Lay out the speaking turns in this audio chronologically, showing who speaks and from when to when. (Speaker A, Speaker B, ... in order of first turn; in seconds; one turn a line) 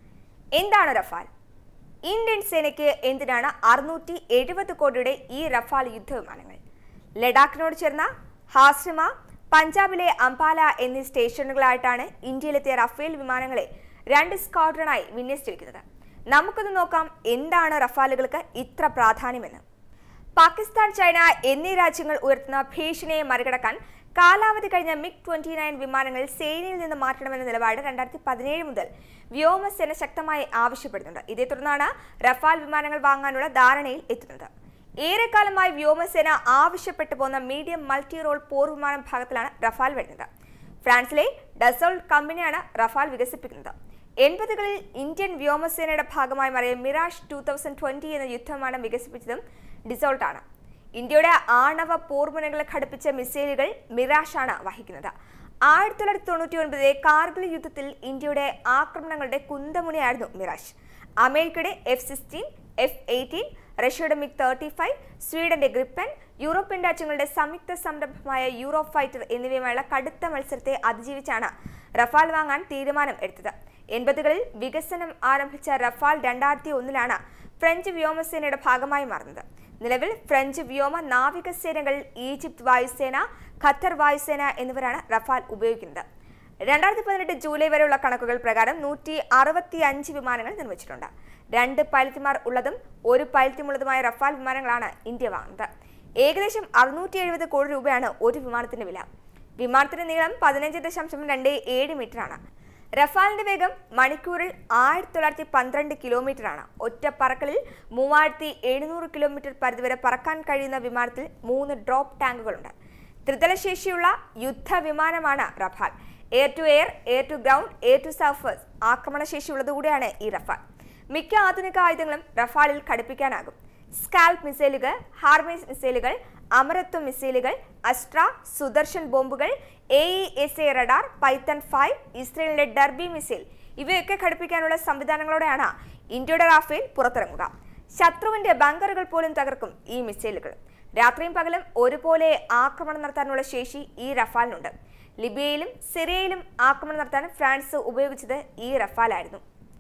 Speaker A: 0.6-1.3
Speaker A: 2.1-6.6
Speaker A: 7.2-19.6
Speaker A: 20.4-34.5
Speaker A: 35.0-40.3
Speaker A: 40.9-50.4
Speaker A: 51.0-55.1
Speaker A: 55.7-86.0
Speaker A: 86.7-95.7
Speaker A: 96.2-99.1
Speaker A: 99.6-102.4
Speaker A: 103.0-112.7
Speaker A: 113.3-120.6
Speaker A: 121.1-149.4